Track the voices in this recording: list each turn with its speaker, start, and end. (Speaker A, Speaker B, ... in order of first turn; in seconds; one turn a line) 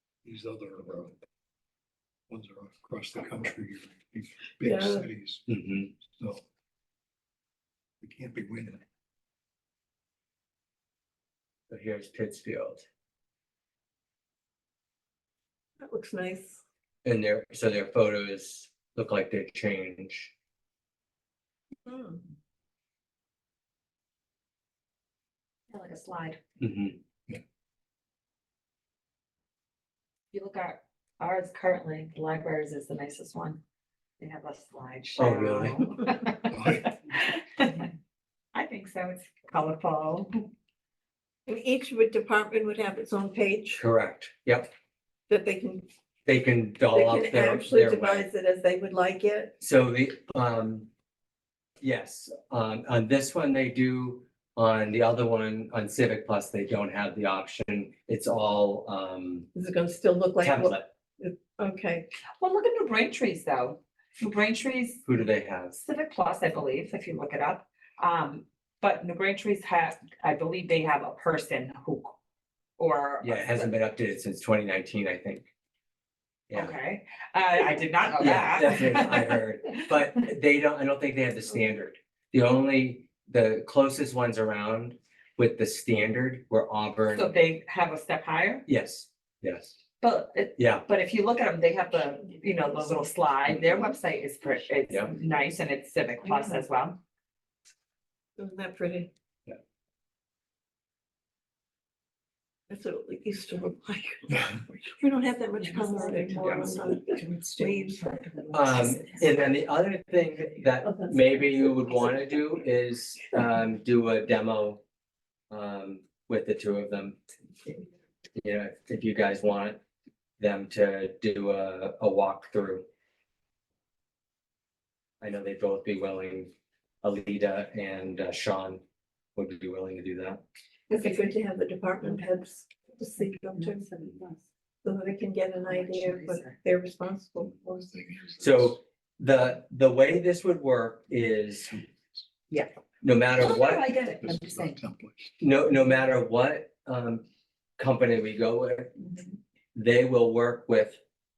Speaker A: 0.2-1.2
Speaker A: 2.3-5.4
Speaker B: 4.6-5.1
Speaker C: 5.5-5.9
Speaker A: 6.0-6.4
Speaker A: 8.0-8.8
Speaker C: 11.7-12.8
Speaker B: 15.8-16.6
Speaker C: 17.0-20.3
Speaker B: 21.9-22.2
Speaker D: 25.7-26.4
Speaker C: 26.6-27.0
Speaker D: 30.3-33.6
Speaker D: 34.2-37.9
Speaker C: 35.2-35.8
Speaker A: 36.5-36.9
Speaker D: 38.5-40.5
Speaker B: 41.5-43.8
Speaker C: 43.7-44.7
Speaker B: 45.3-45.9
Speaker C: 46.2-48.2
Speaker B: 46.9-49.5
Speaker C: 49.6-50.9
Speaker C: 51.8-59.5
Speaker B: 59.5-62.1
Speaker C: 60.4-60.9
Speaker D: 62.4-65.0
Speaker C: 65.0-65.8
Speaker D: 65.7-72.1
Speaker D: 72.8-73.7
Speaker C: 73.2-75.5
Speaker C: 76.5-76.8
Speaker D: 76.5-79.4
Speaker C: 78.2-87.3
Speaker D: 87.1-88.6
Speaker C: 88.7-89.7
Speaker D: 90.0-97.0
Speaker C: 90.5-90.8
Speaker C: 93.5-93.8
Speaker B: 98.4-99.1
Speaker B: 102.7-108.0
Speaker D: 105.6-109.5
Speaker C: 106.4-106.7
Speaker C: 108.5-114.8
Speaker B: 110.8-111.7
Speaker C: 115.5-117.2
Speaker C: 118.4-119.8
Speaker C: 120.4-122.8
Speaker C: 125.2-126.5
Speaker C: 127.0-128.8
Speaker C: 129.3-130.4
Speaker B: 130.9-133.9
Speaker D: 130.9-131.3
Speaker D: 132.0-132.3
Speaker D: 133.2-134.4
Speaker B: 134.8-137.6
Speaker D: 135.6-136.6
Speaker A: 137.6-138.8
Speaker C: 138.4-141.8
Speaker A: 141.7-142.2
Speaker C: 143.0-144.0
Speaker D: 143.3-144.8
Speaker A: 144.2-145.3
Speaker C: 145.4-147.2
Speaker C: 147.8-149.2
Speaker C: 149.7-151.0